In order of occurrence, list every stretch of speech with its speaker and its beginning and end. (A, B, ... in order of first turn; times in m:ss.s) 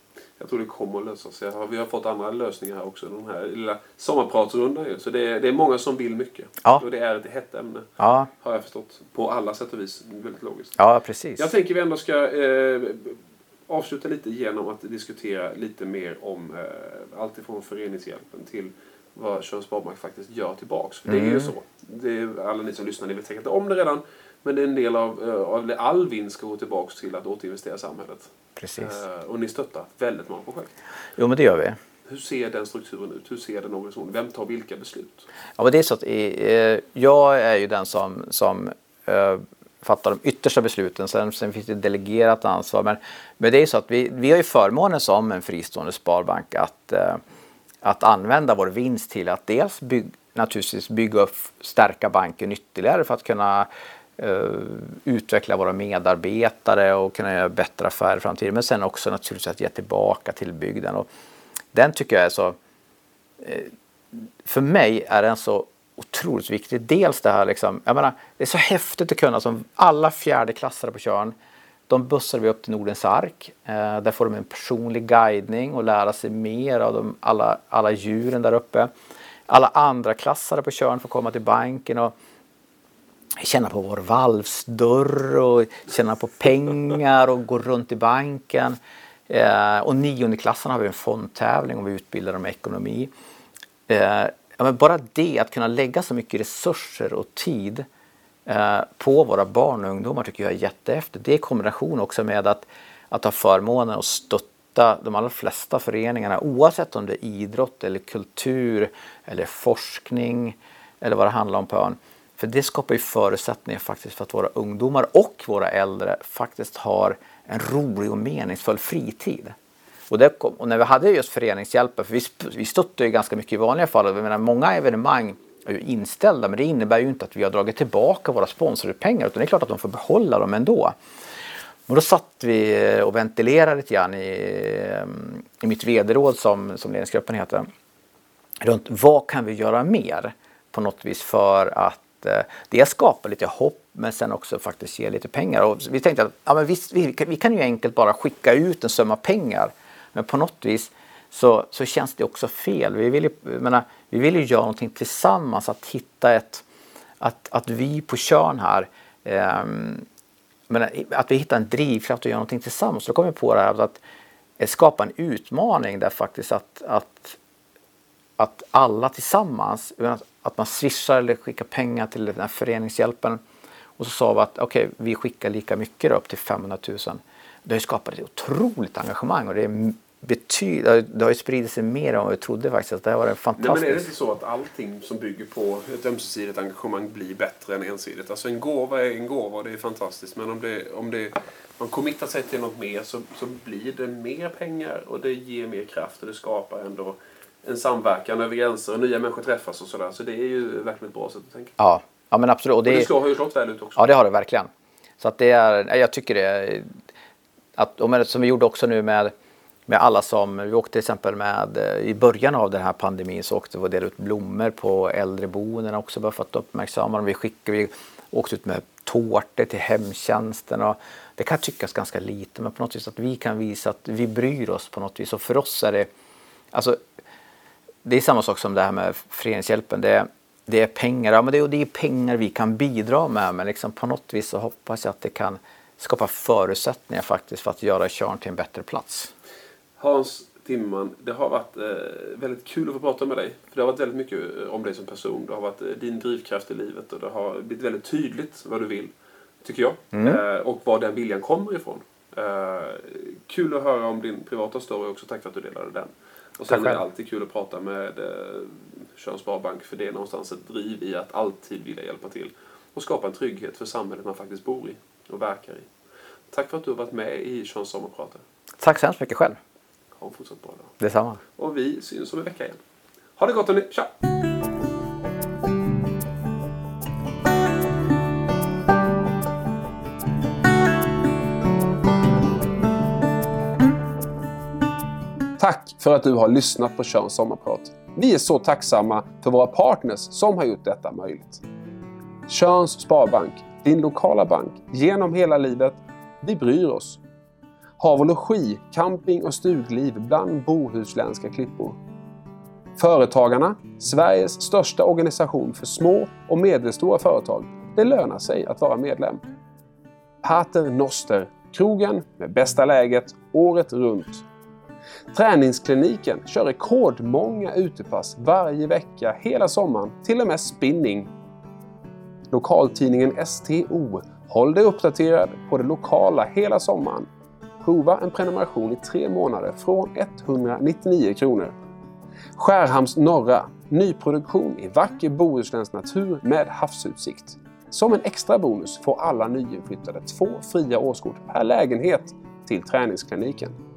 0:00.4-0:07.9 A
0:08.0-0:08.3 B
0:08.4-0:10.8 A
0:10.8-0:11.5 B
0:11.4-0:30.7 A
0:21.1-0:21.5 B
0:28.6-0:29.0 B
0:31.2-0:31.8 B
0:32.1-0:35.3 A
0:35.6-0:47.2 B
0:47.8-1:01.1 B
1:01.7-1:02.6 B
1:03.4-1:11.3 B
1:11.9-1:18.9 B
1:19.5-1:22.1 B
1:23.4-1:28.8 B
1:29.3-1:33.1 B
1:33.9-1:37.8 B
1:38.5-1:59.6 B
2:00.1-2:11.0 B
2:11.9-2:17.7 B
2:18.6-2:36.6 B
2:37.2-2:40.0 B
2:40.7-2:44.0 B
2:44.6-2:47.4 B
2:48.4-2:53.4 B
2:54.0-3:04.1 B
3:03.6-3:21.8 A
3:21.8-3:23.1 B
3:22.8-3:24.1 A
3:24.0-3:26.9 B
3:27.8-3:29.3 B
3:29.9-3:46.1 B
3:46.7-3:47.0 B
3:48.0-3:59.3 B
4:00.0-4:09.1 A
4:09.6-4:25.9 A
4:10.1-4:10.4 B
4:16.6-4:17.0 B
4:26.5-4:28.4 A
4:28.8-4:29.6 B
4:30.2-4:30.9 A
4:31.0-4:31.4 B
4:31.6-4:32.8 A
4:33.4-4:34.1 A
4:45.6-4:51.6 A
4:52.5-4:57.2 A
4:58.0-5:02.0 A
5:03.0-5:09.4 A
5:10.4-5:14.5 A
5:15.3-5:21.3 A
5:22.5-5:27.3 A
5:27.8-5:31.7 A
5:32.6-5:43.8 A